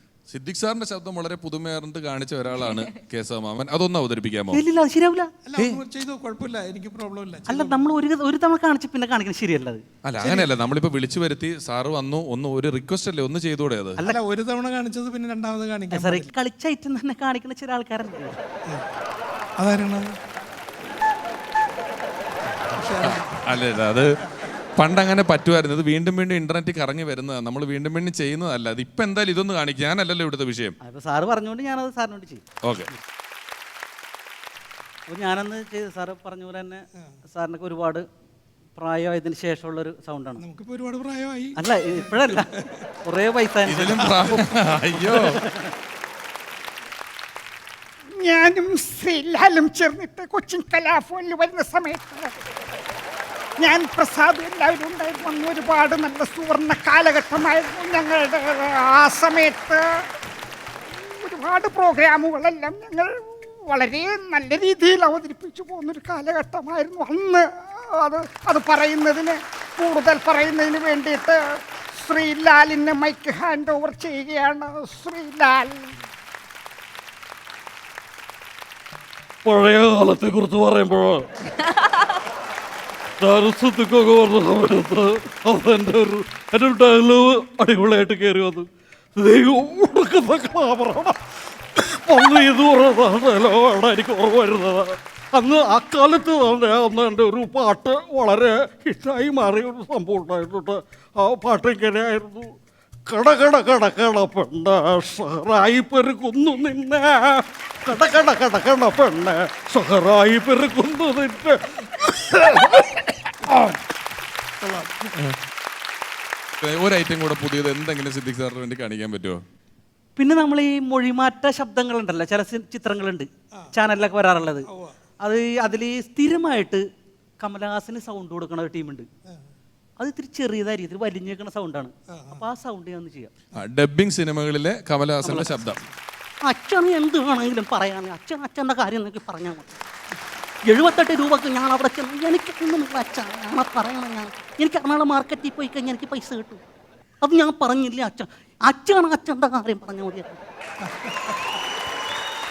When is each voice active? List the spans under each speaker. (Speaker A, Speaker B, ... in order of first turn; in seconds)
Speaker A: 0.3-4.6, 10.0-14.0, 23.0-24.1, 24.8-30.8, 32.6-32.9, 43.7-45.4, 116.6-119.4, 133.6-135.8
Speaker B: 4.5-5.3, 7.5-9.8, 15.9-18.4, 30.8-32.4, 35.1-38.0, 38.8-40.4, 41.6-45.7, 120.2-124.7, 125.2-126.8, 127.4-129.1, 130.0-133.3, 135.2-135.6, 136.4-139.7, 140.7-146.6, 147.2-150.4
Speaker C: 5.4-7.8, 10.2-10.5, 14.0-16.3, 19.6-20.2, 22.7-23.2, 40.4-42.4, 114.6-114.9, 124.7-125.0, 132.1-132.4, 150.9-151.3
Speaker D: 48.1-52.3, 53.6-59.8, 61.0-63.1, 63.7-71.4, 72.0-75.9
Speaker E: 79.4-81.3, 83.2-91.2, 91.8-102.5, 103.0-112.9